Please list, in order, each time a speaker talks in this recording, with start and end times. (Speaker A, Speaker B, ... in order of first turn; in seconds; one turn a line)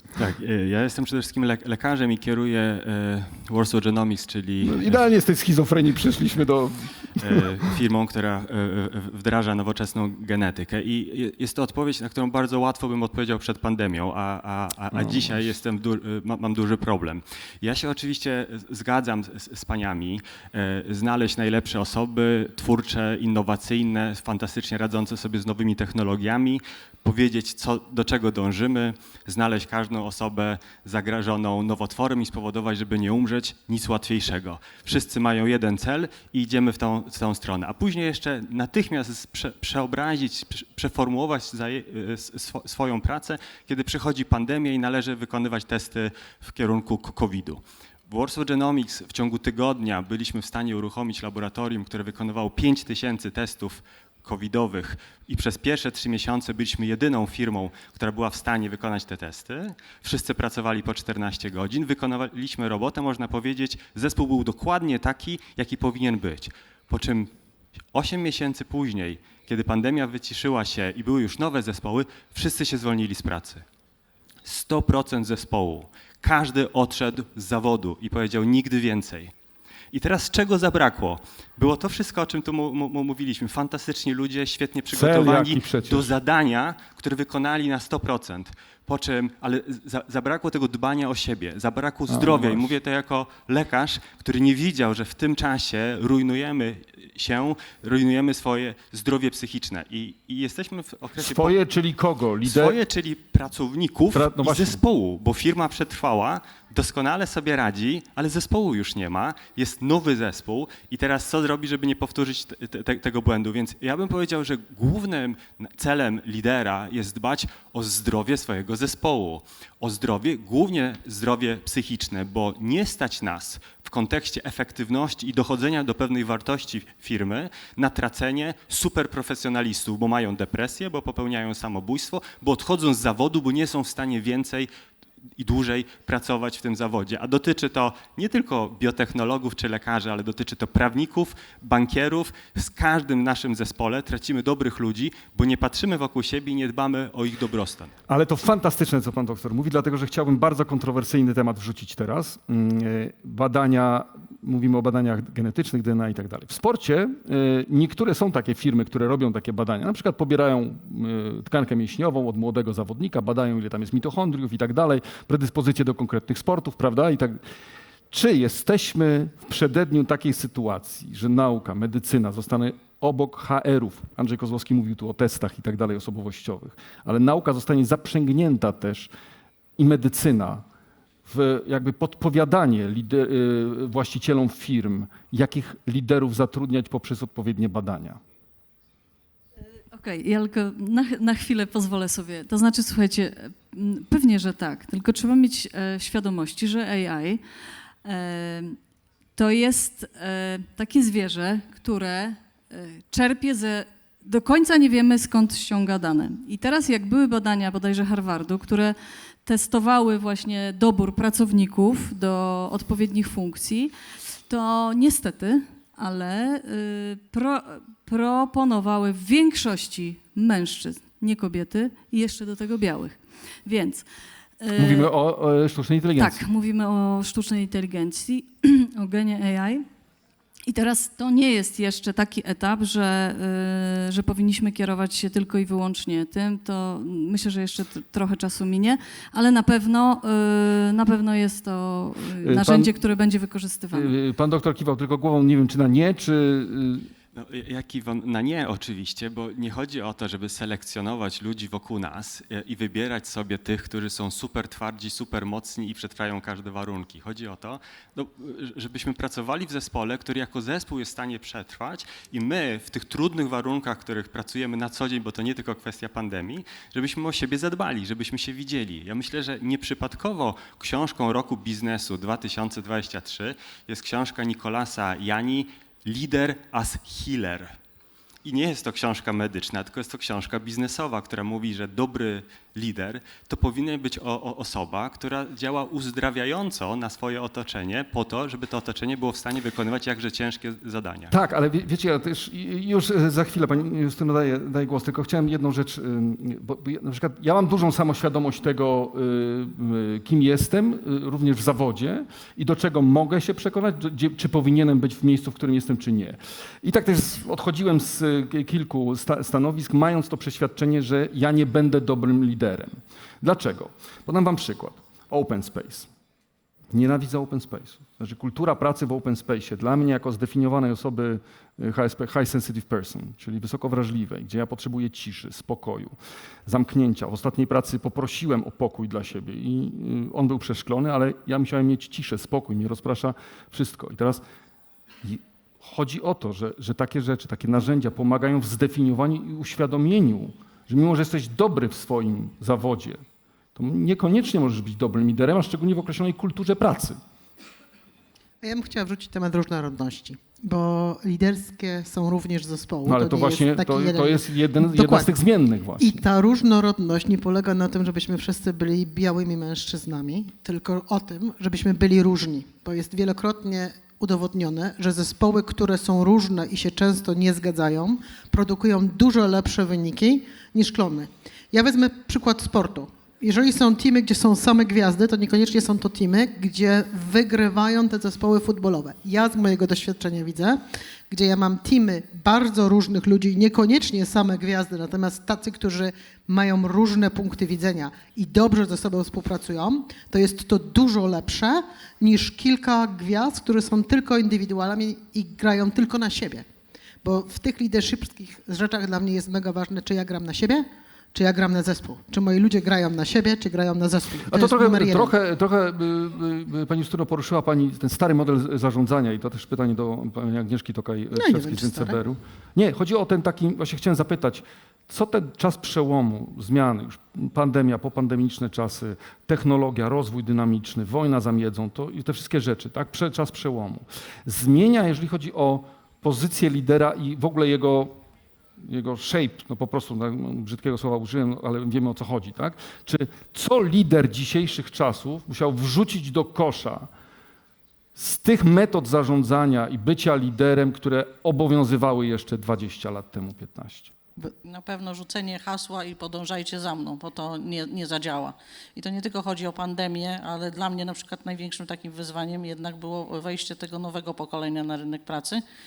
Speaker A: 0.1-5.1
Speaker B: 4.6-7.5
Speaker A: 7.2-67.3
Speaker B: 14.9-15.4
Speaker A: 67.9-73.6
Speaker A: 74.4-79.3
Speaker A: 79.9-101.5
Speaker B: 84.9-86.1
Speaker B: 92.1-92.7
Speaker B: 101.2-102.8
Speaker A: 102.4-134.7
Speaker B: 104.1-104.8
Speaker A: 135.4-147.9
Speaker B: 148.1-167.4
Speaker B: 168.1-179.1
Speaker B: 179.8-180.6
Speaker B: 181.2-188.2
Speaker C: 189.9-197.4
Speaker C: 198.0-198.8
Speaker C: 199.3-224.1
Speaker C: 224.6-225.1
Speaker B: 224.8-226.4
Speaker C: 226.2-229.8
Speaker C: 230.7-244.1
Speaker B: 242.4-242.9
Speaker B: 243.9-247.1
Speaker A: 247.3-277.7
Speaker A: 278.4-291.3
Speaker B: 291.3-316.1
Speaker B: 316.9-326.1
Speaker B: 326.6-334.4
Speaker B: 335.2-343.2
Speaker B: 343.8-347.2
Speaker D: 348.6-355.3
Speaker B: 353.1-356.2
Speaker D: 356.0-396.6
Speaker D: 397.2-405.3
Speaker B: 404.4-428.2
Speaker D: 411.3-412.2
Speaker B: 428.8-437.1
Speaker B: 438.1-444.1
Speaker E: 444.6-455.6